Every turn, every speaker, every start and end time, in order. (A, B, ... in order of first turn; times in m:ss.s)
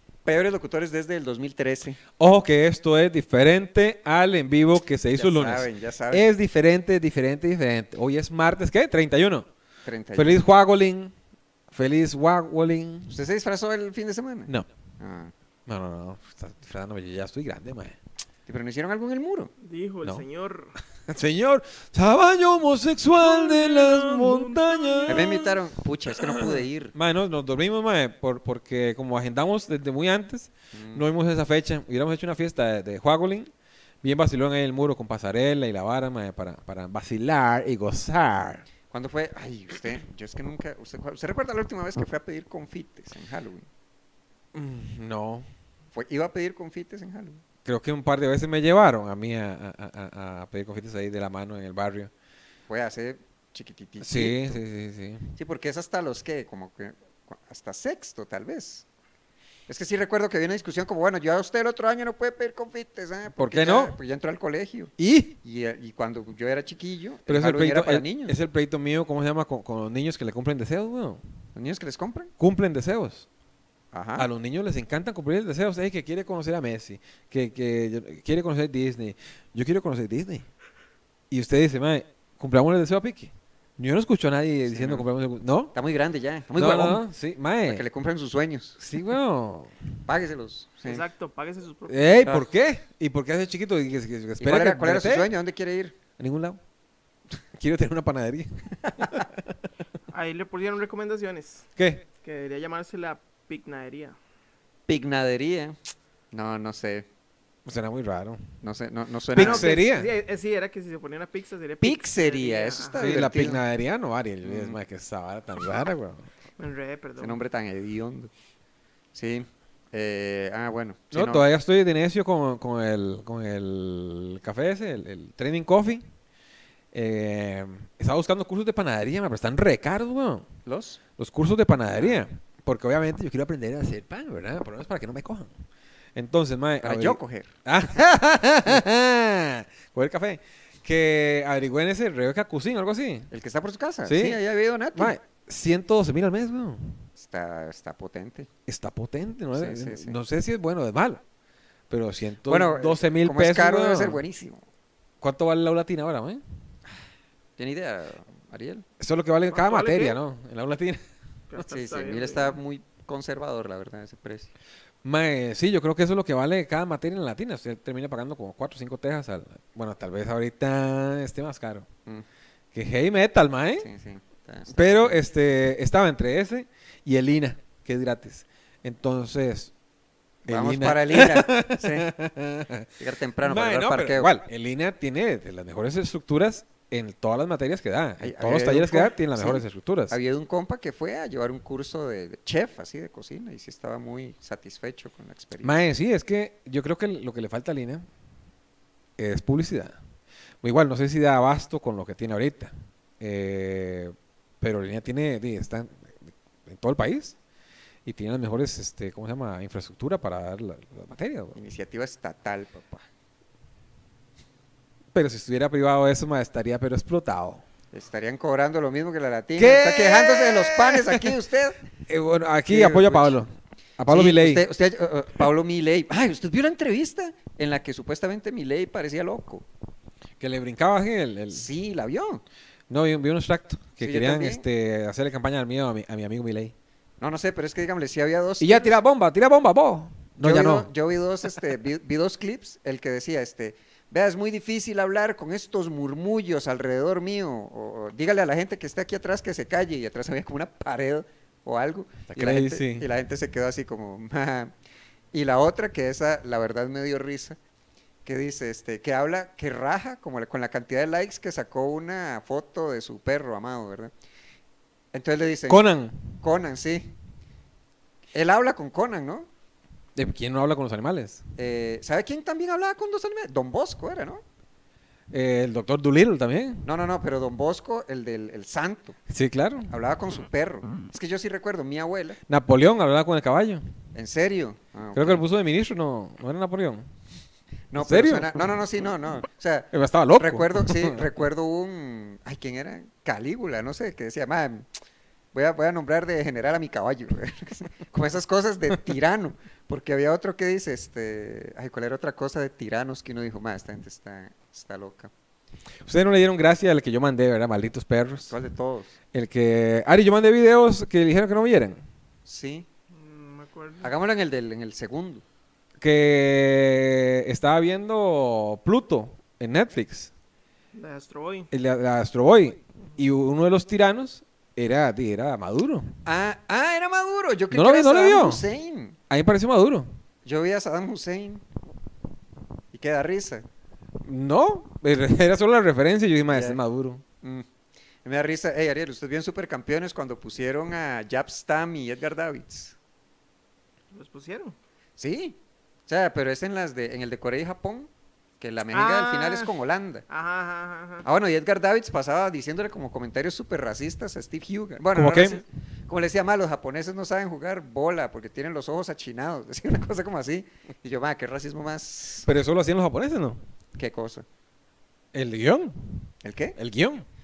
0:00.2-0:02.0 A
0:02.2-0:09.5 B
0:05.1-0:06.3 A
0:09.8-0:10.4 A
0:10.1-0:11.1 B
0:11.7-0:13.1 B
0:13.1-0:15.3 A
0:15.7-0:18.0 B
0:18.5-0:19.5 A
0:19.6-0:20.7 C
0:21.1-0:25.5 B
0:23.2-0:25.4 C
0:25.1-0:26.9 A
0:26.2-0:33.5 B
0:30.7-0:31.0 A
0:34.0-0:38.7 B
0:38.9-0:43.6 A
0:44.5-0:45.5 B
0:45.9-0:47.4 A
0:47.6-0:52.1 B
0:52.7-0:54.6 A
0:54.0-0:55.3 B
0:55.4-0:58.8 A
0:59.7-1:04.9 A
1:03.4-1:04.0 B
1:05.0-1:05.3 B
1:05.4-1:08.4 A
1:07.2-1:11.2 B
1:11.5-1:12.3 A
1:12.4-1:13.3 B
1:13.9-1:14.3 A
1:14.2-1:20.4 B
1:21.3-1:25.7 B
1:24.6-1:25.1 A
1:25.7-1:27.0 A
1:26.5-1:27.8 B
1:27.6-1:28.8 A
1:28.8-1:29.8 B
1:30.1-1:31.0 A
1:30.8-1:32.4 C
1:31.9-1:35.3 B
1:34.4-1:36.0 A
1:36.2-1:36.6 B
1:37.6-1:39.3 B
1:40.1-1:41.6 C
1:41.8-1:42.0 B
1:42.2-1:44.2 C
1:44.9-1:45.8 A
1:46.3-1:47.0 A
1:47.6-1:48.4 B
1:48.6-1:49.7 A
1:49.3-1:50.1 B
1:49.3-1:53.2 C
1:51.8-1:53.6 A
1:53.0-1:56.3 B
1:54.4-1:54.8 A
1:56.6-1:57.4 C
1:57.2-1:58.3 A
1:59.1-2:01.5 A
2:01.1-2:06.1 B
2:06.9-2:10.5 B
2:10.6-2:11.0 A
2:11.2-2:15.5 B
2:11.9-2:12.2 A
2:16.2-2:23.3 B
2:16.8-2:17.5 A
2:23.3-2:25.1 A
2:24.0-2:24.4 B
2:24.9-2:27.0 B
2:27.2-2:28.5 A
2:28.7-2:31.2 B
2:29.5-2:30.2 A
2:31.9-2:34.2 B
2:32.4-2:34.6 A
2:35.2-2:36.4 B
2:37.6-2:38.8 A
2:39.0-2:41.0 B
2:39.5-2:40.2 C
2:41.5-2:42.6 C
2:41.7-2:44.5 A
2:45.0-2:51.9 B
2:52.7-2:53.9 B
2:53.8-2:55.2 A
2:54.7-2:59.7 B
3:00.5-3:02.1 A
3:00.5-3:02.9 B
3:03.0-3:04.3 A
3:03.4-3:10.2 B
3:08.2-3:15.8 A
3:15.6-3:18.0 B
3:19.2-3:20.0 B
3:20.6-3:27.4 B
3:28.0-3:31.6 B
3:31.5-3:33.0 A
3:35.1-3:37.6 B
3:37.9-3:41.8 A
3:39.6-3:41.3 B
3:42.1-3:44.6 B
3:42.7-3:43.4 A
3:44.1-3:49.6 A
3:50.4-3:51.6 B
3:51.5-3:52.4 A
3:52.9-3:56.7 B
3:54.0-3:54.6 A
3:57.2-3:59.0 A
3:58.6-4:00.9 B
4:00.4-4:14.7 A
4:12.3-4:13.0 B
4:15.3-4:17.6 A
4:18.2-4:24.1 A
4:25.1-4:25.8 A
4:25.7-4:26.4 B
4:26.4-4:27.1 A
4:28.3-4:29.5 A
4:30.2-4:31.4 B
4:31.6-4:34.4 A
4:35.3-4:36.8 B
4:36.8-4:39.2 A
4:39.3-4:39.9 B
4:39.9-4:42.4 A
4:42.5-4:43.8 B
4:44.1-4:45.4 A
4:45.2-4:47.1 B
4:47.9-4:54.9 A
4:48.0-4:48.5 B
4:49.9-4:51.2 B
4:55.5-5:05.3 A
5:06.1-5:08.5 B
5:08.5-5:09.1 A
5:09.3-5:12.0 B
5:12.4-5:12.9 A
5:13.1-5:14.1 C
5:14.0-5:15.4 A
5:16.0-5:20.3 B
5:20.9-5:21.7 C
5:21.7-5:26.1 B
5:26.2-5:29.2 A
5:27.7-5:28.6 B
5:29.3-5:30.2 B
5:30.4-5:31.6 A
5:32.9-5:33.6 A
5:34.2-5:37.2 B
5:36.5-5:36.8 A
5:38.2-5:43.0 A
5:44.1-5:44.8 C
5:45.2-5:50.2 A
5:48.9-5:49.7 C
5:50.3-5:51.2 C
5:51.2-6:02.5 A
5:55.1-5:55.6 B
6:02.4-6:03.6 B
6:04.0-6:04.4 A
6:05.3-6:07.2 B
6:06.4-6:06.8 A